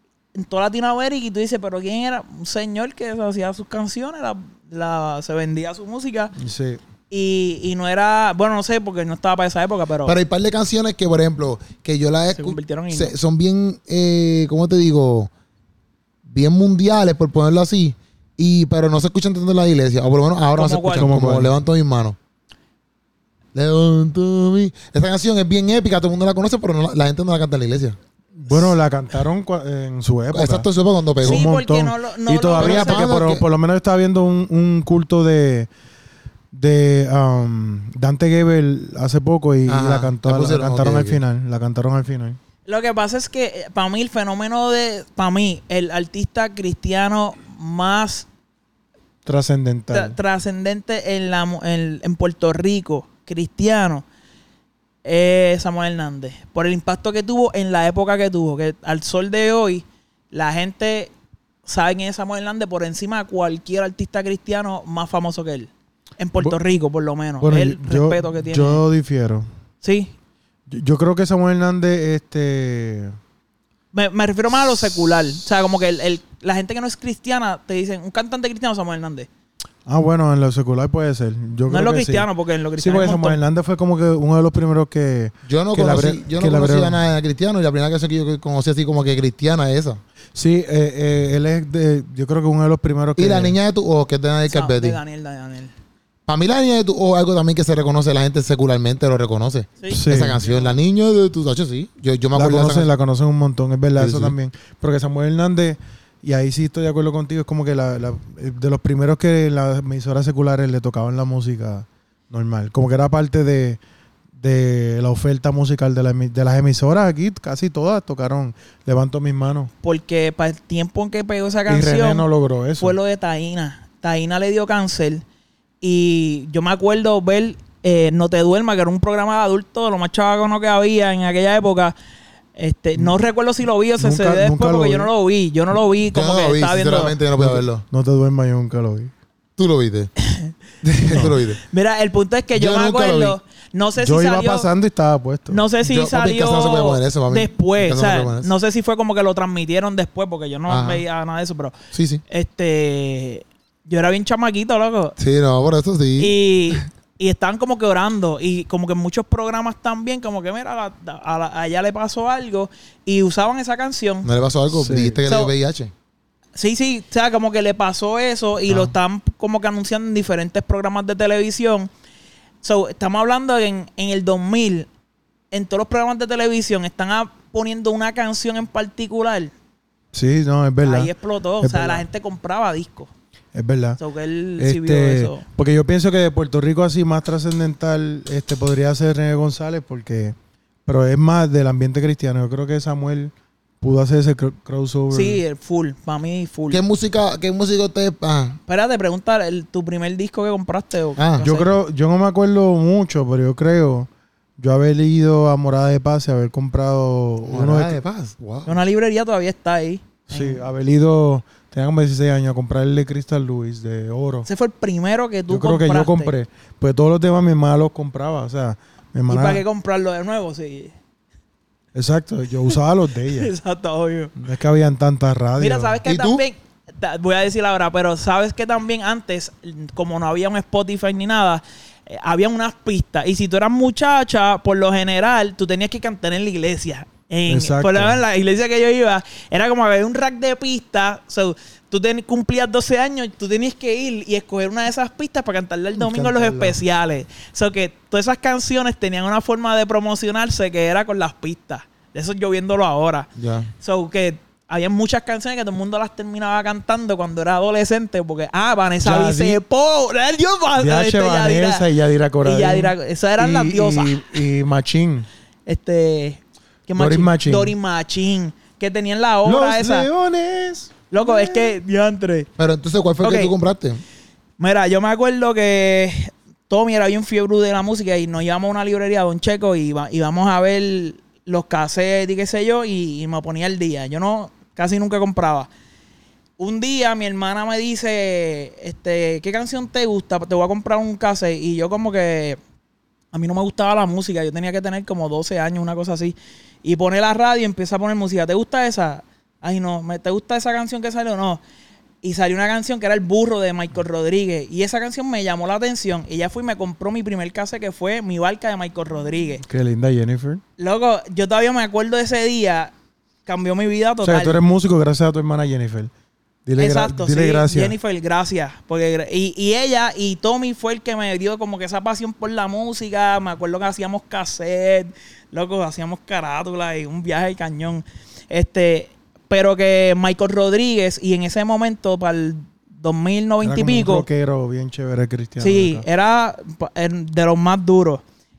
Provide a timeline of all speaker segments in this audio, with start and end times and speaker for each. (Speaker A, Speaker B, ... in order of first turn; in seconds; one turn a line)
Speaker A: 0.4-6.3
Speaker B: 6.4-6.8
Speaker A: 7.1-10.2
Speaker C: 10.1-15.3
Speaker A: 12.3-13.2
Speaker C: 16.3-22.2
Speaker A: 20.5-21.1
Speaker B: 21.0-21.5
Speaker C: 23.5-28.0
Speaker B: 28.4-30.7
Speaker C: 28.5-28.8
Speaker C: 30.3-31.5
Speaker B: 31.2-35.7
Speaker A: 31.2-33.1
Speaker C: 32.6-33.4
Speaker B: 36.5-42.4
Speaker C: 39.7-41.2
Speaker A: 42.7-48.3
Speaker B: 49.3-50.2
Speaker A: 49.9-54.0
Speaker A: 55.0-61.1
Speaker A: 61.6-68.8
Speaker B: 67.4-69.5
Speaker A: 69.8-70.1
Speaker B: 70.7-73.2
Speaker A: 73.9-79.3
Speaker B: 79.9-87.0
Speaker A: 81.7-83.4
Speaker C: 85.5-90.0
Speaker B: 90.3-93.6
Speaker C: 93.2-95.0
Speaker A: 94.5-95.7
Speaker C: 96.3-102.9
Speaker A: 99.8-100.8
Speaker B: 99.9-100.4
Speaker B: 102.3-113.8
Speaker C: 104.0-104.3
Speaker B: 114.4-119.7
Speaker A: 119.8-122.3
Speaker B: 121.7-123.0
Speaker A: 122.8-125.2
Speaker A: 125.8-131.9
Speaker A: 132.6-137.2
Speaker B: 134.0-135.1
Speaker C: 136.1-137.8
Speaker B: 137.4-139.1
Speaker C: 139.6-140.1
Speaker A: 140.2-140.5
Speaker C: 140.8-141.6
Speaker A: 141.2-144.7
Speaker C: 142.6-143.4
Speaker B: 144.0-145.7
Speaker A: 145.5-151.7
Speaker C: 145.8-148.5
Speaker C: 150.7-151.1
Speaker C: 151.9-152.2
Speaker A: 152.3-155.2
Speaker C: 155.2-156.4
Speaker A: 156.2-164.3
Speaker C: 164.2-165.9
Speaker B: 164.7-165.2
Speaker A: 165.3-165.5
Speaker A: 166.6-171.9
Speaker C: 168.7-168.9
Speaker A: 172.6-174.9
Speaker A: 175.5-179.5
Speaker B: 180.1-182.1
Speaker A: 180.8-183.1
Speaker B: 183.5-184.0
Speaker A: 184.0-185.4
Speaker B: 184.6-190.3
Speaker B: 190.9-195.4
Speaker A: 195.1-196.8
Speaker C: 196.7-198.6
Speaker A: 198.7-201.7
Speaker C: 201.2-201.5
Speaker B: 201.4-208.0
Speaker C: 207.5-208.8
Speaker A: 208.7-210.6
Speaker B: 210.3-214.5
Speaker A: 214.5-216.3
Speaker B: 215.5-219.6
Speaker A: 219.3-220.9
Speaker B: 221.9-223.5
Speaker A: 223.3-224.3
Speaker B: 224.4-226.0
Speaker A: 225.6-253.3
Speaker C: 226.1-226.4
Speaker B: 237.5-238.2
Speaker B: 245.9-246.8
Speaker C: 253.4-253.7
Speaker A: 253.8-261.9
Speaker B: 259.0-259.6
Speaker B: 260.8-265.3
Speaker A: 262.4-264.4
Speaker A: 265.7-270.1
Speaker B: 267.0-267.8
Speaker B: 269.4-271.8
Speaker A: 271.1-272.5
Speaker C: 272.6-274.0
Speaker A: 273.2-273.5
Speaker A: 274.6-285.7
Speaker A: 286.6-292.6
Speaker A: 293.3-301.6
Speaker A: 302.2-309.6
Speaker B: 309.7-310.6
Speaker A: 310.8-312.9
Speaker A: 313.5-314.6
Speaker B: 314.2-316.1
Speaker B: 316.7-317.9
Speaker A: 316.8-334.3
Speaker B: 333.6-336.1
Speaker A: 335.6-338.2